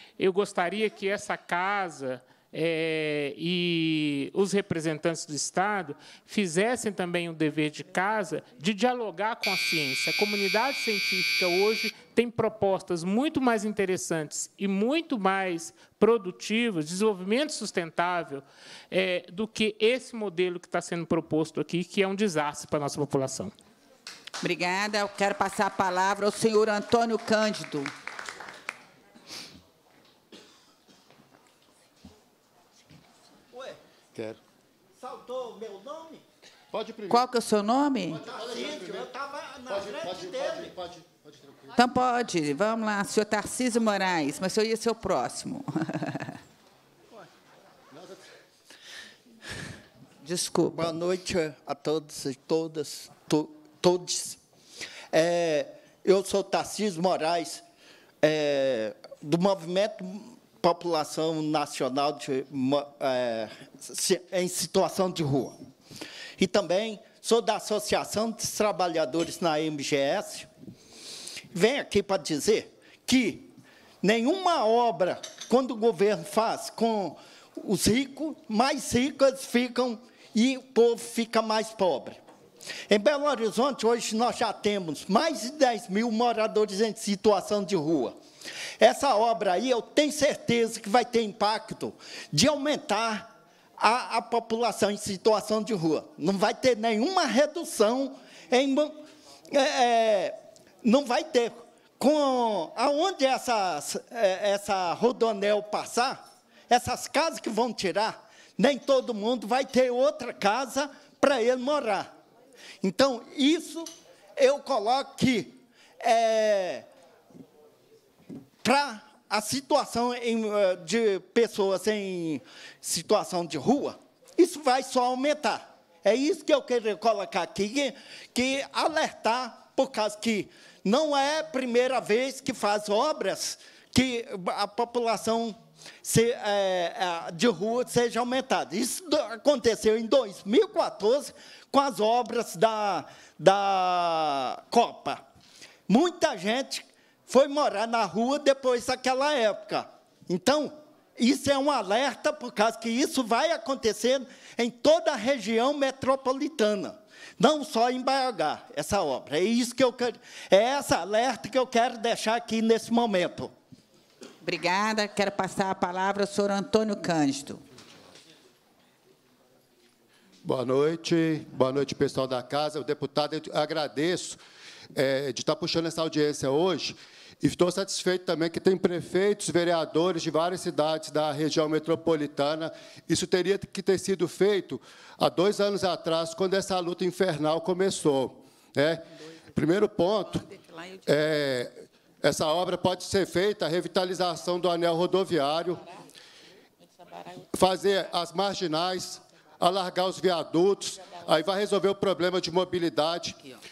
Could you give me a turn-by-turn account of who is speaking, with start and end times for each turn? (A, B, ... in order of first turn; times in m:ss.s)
0:00.2-0:23.5 A
0:24.4-0:27.9 B
0:33.5-0:34.4 C
0:35.0-0:36.2 C
0:36.7-0:37.0 C
0:37.1-0:38.3 B
0:38.1-0:40.8 C
0:40.1-0:40.7 D
0:41.8-0:46.3 B
0:50.2-0:50.8 B
0:50.7-0:54.4 C
0:55.1-0:57.6 C
0:58.2-1:05.6 C
1:06.4-1:10.5 C
1:11.5-1:13.5 C
1:14.0-1:22.2 C
1:22.9-1:28.2 C
1:28.8-1:39.0 C
1:39.5-1:52.1 C
1:52.8-1:56.8 C
1:58.6-2:25.2 C
2:25.9-2:43.5 C
2:44.4-2:47.6 B
2:50.4-2:54.4 D
2:54.9-3:10.5 D
3:11.0-3:15.8 D
3:17.5-3:23.4 D